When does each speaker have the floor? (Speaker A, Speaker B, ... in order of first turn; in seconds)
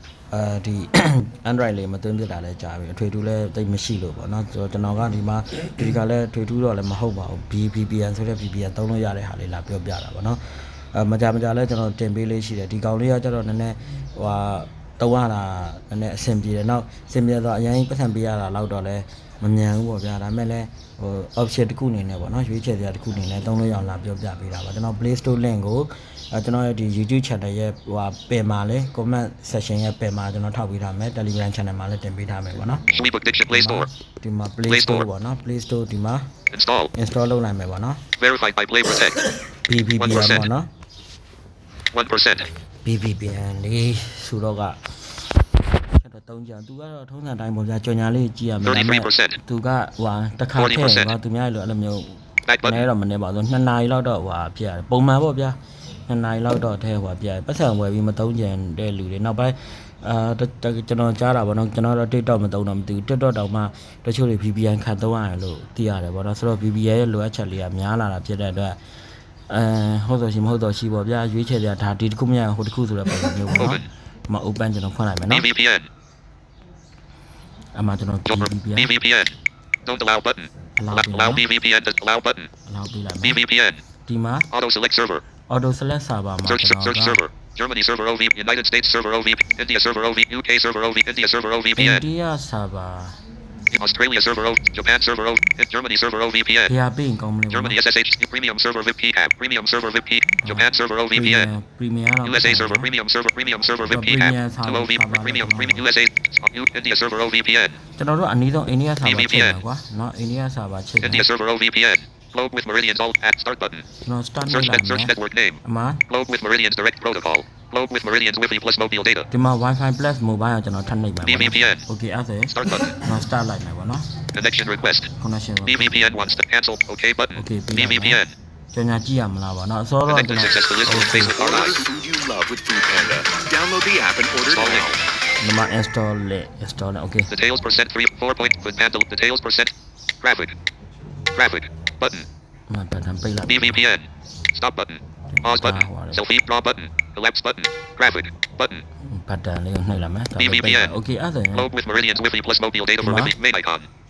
Speaker A: 0.3-10.4, 10.9-32.9, 33.5-36.3, 36.9-38.0, 39.5-40.7, 42.8-45.0, 45.7-68.8, 69.5-75.5, 77.8-78.9, 80.8-81.5, 82.7-83.4, 84.1-84.5, 85.5-87.2, 91.8-93.2, 96.7-97.8, 100.3-102.9, 103.8-105.9, 108.0-111.3, 114.0-116.0, 119.3-124.1, 125.2-125.9, 127.3-128.2, 128.7-131.4, 135.4-137.3, 142.7-143.8, 145.3-146.2, 149.1-151.7, 153.0-153.3
Speaker B: 32.9-33.9, 34.7-35.1, 36.5-36.9, 38.2-39.2, 40.0-40.5, 41.9-42.5, 48.6-49.4, 50.6-51.1, 52.5-52.9, 73.6-73.9, 75.3-75.9, 78.3-82.5, 83.2-83.8, 84.5-85.2, 86.4-92.0, 93.7-96.7, 97.5-101.5, 102.2-107.8, 109.0-109.6, 111.0-113.9, 114.5-119.3, 121.3-121.9, 122.5-123.0, 124.3-125.1, 125.7-128.3, 130.1-131.9, 134.5-135.0, 137.3-140.6, 141.3-142.3, 143.4-148.9, 150.4-151.0, 151.5-153.9
Speaker C: 131.2-135.0